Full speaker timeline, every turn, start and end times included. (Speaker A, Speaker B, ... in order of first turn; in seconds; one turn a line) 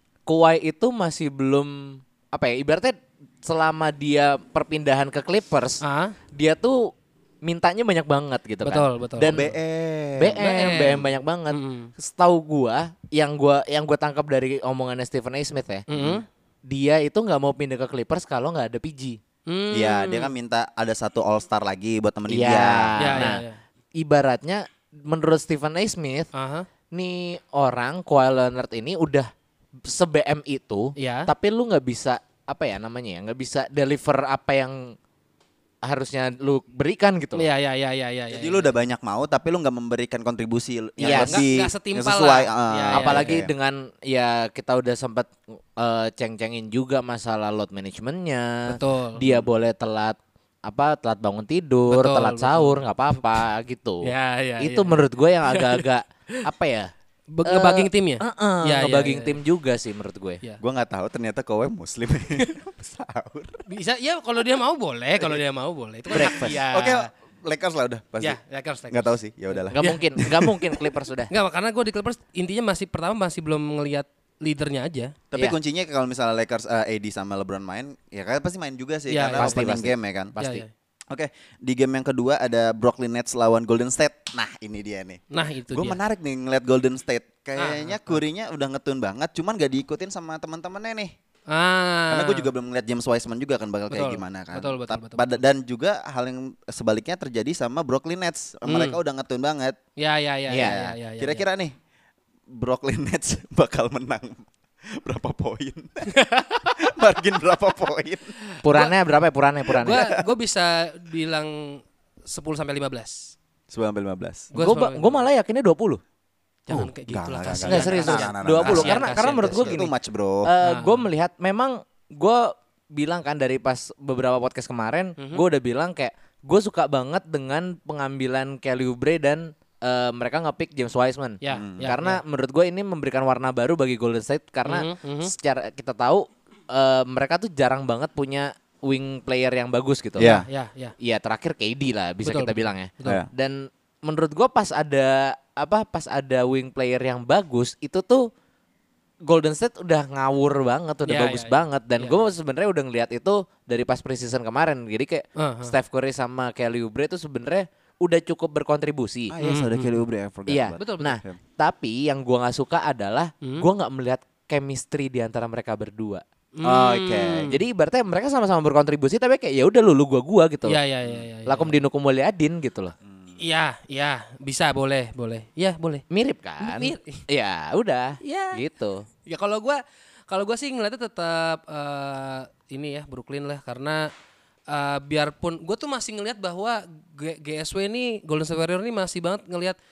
Speaker A: 0.3-5.8
Speaker B: 5.8-6.2
Speaker A: 6.4-6.9
Speaker A: 7.5-9.5
Speaker B: 8.7-9.4
Speaker C: 9.3-11.0
Speaker A: 10.2-15.8
Speaker B: 10.4-11.9
Speaker B: 15.9-16.3
Speaker C: 15.9-16.2
Speaker A: 16.7-19.2
Speaker B: 19.5-20.3
Speaker C: 19.7-23.4
Speaker A: 22.3-23.4
Speaker B: 23.0-23.6
Speaker A: 24.0-26.3
Speaker B: 26.4-26.7
Speaker A: 26.9-29.3
Speaker A: 29.9-34.9
Speaker B: 31.0-31.3
Speaker A: 35.9-37.5
Speaker B: 37.4-38.7
Speaker C: 38.3-43.5
Speaker A: 41.0-41.4
Speaker B: 41.0-43.4
Speaker A: 42.9-56.9
Speaker B: 48.7-49.2
Speaker C: 49.2-49.5
Speaker B: 51.9-52.8
Speaker B: 54.0-55.9
Speaker B: 57.3-59.4
Speaker A: 57.5-60.4
Speaker C: 60.6-63.6
Speaker B: 63.7-67.1
Speaker C: 66.1-70.7
Speaker A: 66.1-66.6
Speaker B: 68.2-70.0
Speaker A: 69.7-71.3
Speaker B: 71.3-75.2
Speaker C: 75.3-80.3
Speaker B: 79.1-79.6
Speaker A: 79.4-80.6
Speaker B: 80.4-80.7
Speaker C: 81.1-91.1
Speaker B: 85.3-86.0
Speaker B: 87.6-88.2
Speaker B: 91.5-92.5
Speaker C: 92.1-99.8
Speaker B: 93.9-95.4
Speaker B: 98.7-99.0
Speaker B: 100.0-101.4
Speaker A: 100.5-100.8
Speaker C: 100.6-101.8
Speaker C: 102.5-106.2
Speaker B: 106.2-106.7
Speaker C: 106.8-108.3
Speaker A: 108.6-110.0
Speaker C: 109.8-110.2
Speaker B: 109.8-113.3
Speaker C: 113.7-114.5
Speaker B: 114.5-115.2
Speaker A: 114.5-116.0
Speaker B: 116.7-119.8
Speaker C: 116.7-120.5
Speaker A: 117.6-119.9
Speaker A: 120.5-140.3
Speaker B: 120.6-121.0
Speaker B: 125.2-125.4
Speaker B: 131.4-132.2
Speaker C: 131.5-131.9
Speaker B: 134.7-135.3
Speaker C: 140.2-140.5
Speaker B: 140.2-140.9
Speaker A: 141.0-148.3
Speaker B: 142.2-143.2
Speaker A: 149.2-159.3
Speaker B: 151.1-152.2
Speaker B: 155.4-155.7
Speaker C: 159.3-161.4
Speaker B: 159.4-160.0
Speaker A: 160.5-166.2
Speaker B: 160.8-161.2
Speaker B: 166.6-167.6
Speaker C: 166.6-167.5
Speaker A: 167.5-170.8
Speaker B: 170.7-171.8
Speaker A: 171.5-172.9
Speaker C: 173.1-173.4
Speaker B: 173.4-176.0
Speaker A: 176.1-179.1
Speaker B: 176.6-177.2
Speaker B: 178.2-178.6
Speaker B: 179.3-184.1
Speaker B: 184.7-189.8